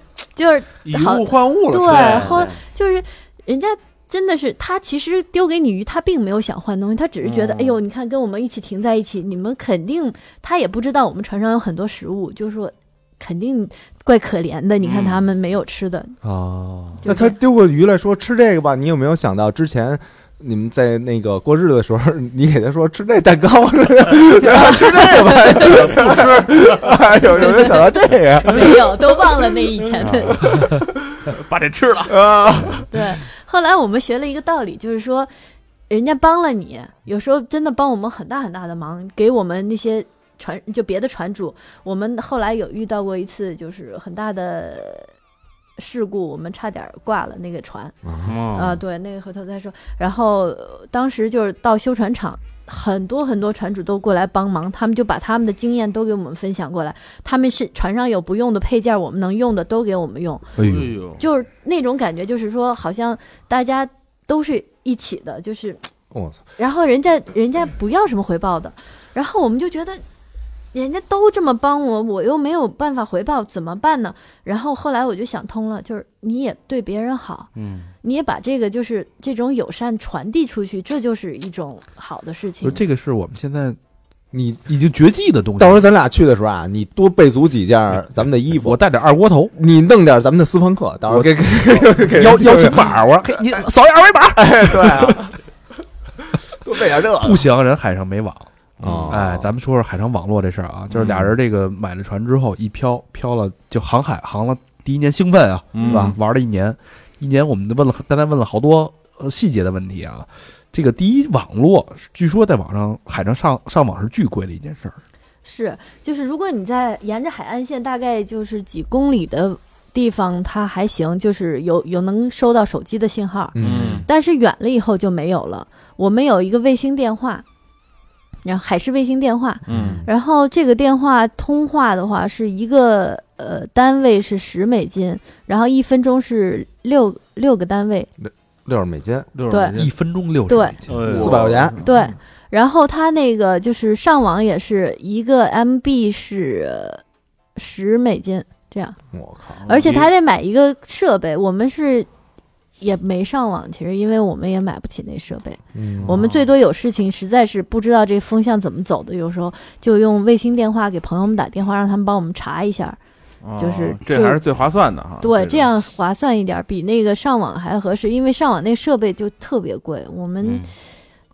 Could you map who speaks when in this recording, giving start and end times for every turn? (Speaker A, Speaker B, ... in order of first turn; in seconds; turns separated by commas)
Speaker A: 0.4-16.2, Speaker B: 0.8-2.5, Speaker C: 1.9-2.6, Speaker B: 7.2-7.8, Speaker C: 14.8-15.2, Speaker D: 16.2-17.0, Speaker A: 17.0-17.4, Speaker E: 17.1-28.9, Speaker A: 24.4-25.9, Speaker B: 25.6-26.5, Speaker A: 27.4-30.4, Speaker B: 31.2-32.2, Speaker E: 32.1-32.9, Speaker A: 32.9-35.3, Speaker A: 35.9-45.1, Speaker A: 45.8-48.0, Speaker E: 48.0-48.4, Speaker C: 48.2-48.8, Speaker A: 48.5-60.5, Speaker D: 60.6-61.0, Speaker B: 60.6-61.2, Speaker A: 61.2-65.9, Speaker E: 66.1-66.4, Speaker A: 66.6-70.0, Speaker A: 70.7-77.5, Speaker C: 77.6-77.9, Speaker A: 78.0-82.8, Speaker D: 82.6-83.8, Speaker E: 84.3-84.7, Speaker D: 84.7-85.8, Speaker E: 85.6-88.8, Speaker D: 88.6-89.5, Speaker E: 89.5-93.0, Speaker D: 91.1-95.3, Speaker E: 94.4-95.3, Speaker E: 96.5-97.5, Speaker D: 97.1-98.5, Speaker E: 98.8-99.5, Speaker B: 98.8-99.2, Speaker D: 99.1-115.0, Speaker B: 100.9-101.3, Speaker B: 105.7-106.2, Speaker E: 105.8-106.2, Speaker A: 115.4-127.4, Speaker E: 123.5-124.1, Speaker B: 123.6-124.1, Speaker A: 128.4-138.1, Speaker B: 129.7-130.0, Speaker E: 129.7-130.1, Speaker E: 138.2-139.3, Speaker B: 139.3-139.9, Speaker A: 139.5-139.8, Speaker D: 139.8-141.6, Speaker A: 140.5-140.8, Speaker C: 140.9-141.5, Speaker B: 141.1-142.1, Speaker E: 141.1-141.8, Speaker A: 141.8-147.0, Speaker A: 147.6-149.0, Speaker E: 149.1-149.6, Speaker B: 149.6-150.1, Speaker A: 149.7-152.1, Speaker A: 152.8-163.0, Speaker E: 155.7-156.2, Speaker B: 156.0-156.5, Speaker B: 163.4-165.7, Speaker A: 163.6-164.4, Speaker A: 165.2-170.7, Speaker C: 170.4-170.7